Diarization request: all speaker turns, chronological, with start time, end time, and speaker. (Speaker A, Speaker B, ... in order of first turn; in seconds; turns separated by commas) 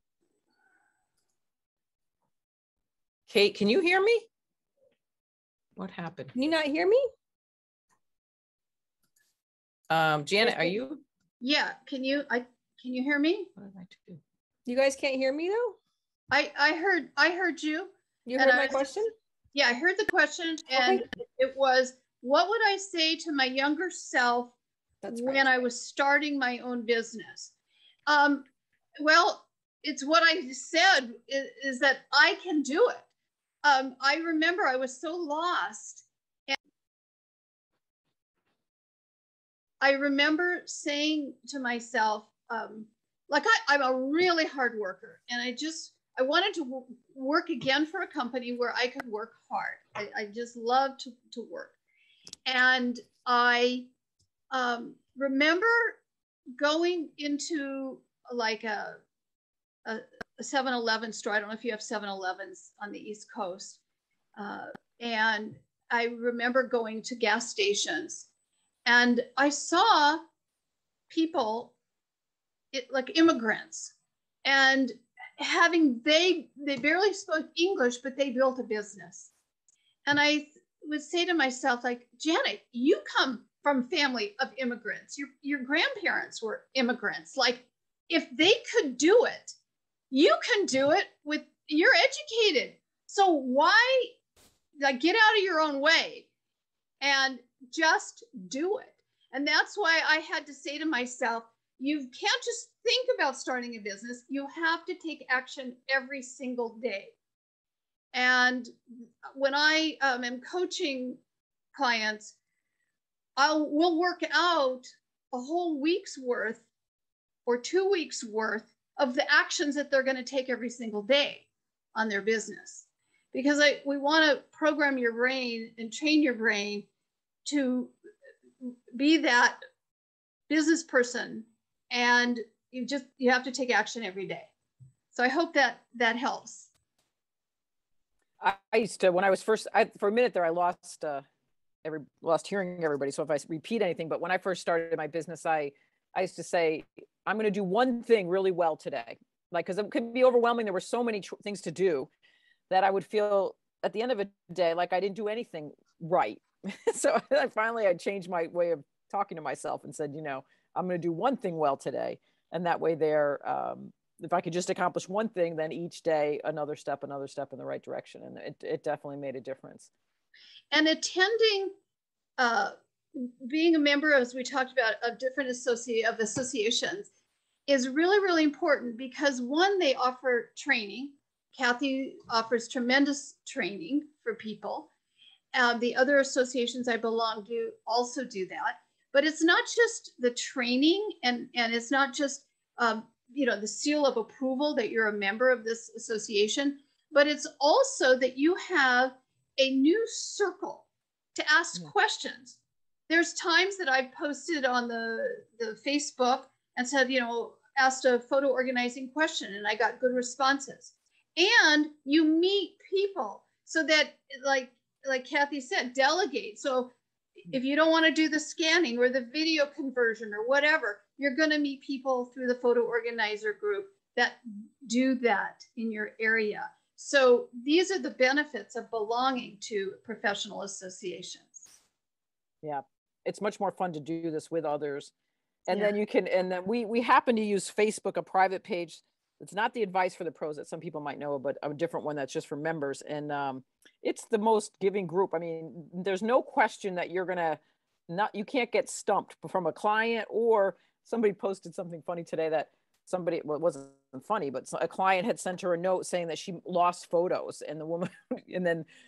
Speaker A: 3.3-4.3, Speaker A: 5.8-6.3, Speaker B: 6.3-7.1, Speaker A: 9.9-11.0, Speaker C: 11.4-13.5, Speaker A: 13.6-14.2, Speaker B: 14.7-15.8, Speaker C: 16.3-18.9, Speaker B: 18.3-19.1, Speaker C: 19.5-24.6, Speaker B: 25.0-25.4, Speaker C: 25.1-27.5, Speaker C: 28.1-28.5, Speaker C: 29.0-33.1, Speaker C: 33.6-36.6, Speaker C: 39.8-51.8, Speaker C: 52.5-53.9, Speaker C: 54.5-56.0, Speaker C: 56.6-59.0, Speaker C: 59.9-63.8, Speaker C: 64.4-68.3, Speaker C: 68.9-70.2, Speaker C: 71.1-71.7, Speaker C: 72.7-73.9, Speaker C: 74.5-79.3, Speaker C: 80.1-89.6, Speaker C: 90.1-94.1, Speaker C: 94.8-96.3, Speaker C: 97.0-107.1, Speaker C: 108.1-108.7, Speaker C: 109.3-111.2, Speaker C: 111.8-112.4, Speaker C: 113.4-116.6, Speaker C: 117.5-126.9, Speaker C: 127.5-127.9, Speaker C: 128.6-129.6, Speaker C: 130.5-134.5, Speaker C: 135.1-136.7, Speaker A: 138.4-141.2, Speaker A: 141.8-152.1, Speaker A: 152.7-169.9, Speaker C: 170.7-171.7, Speaker C: 172.4-177.1, Speaker C: 177.7-184.9, Speaker C: 185.5-202.6, Speaker C: 203.1-231.7, Speaker A: 232.6-235.1, Speaker A: 235.7-258.9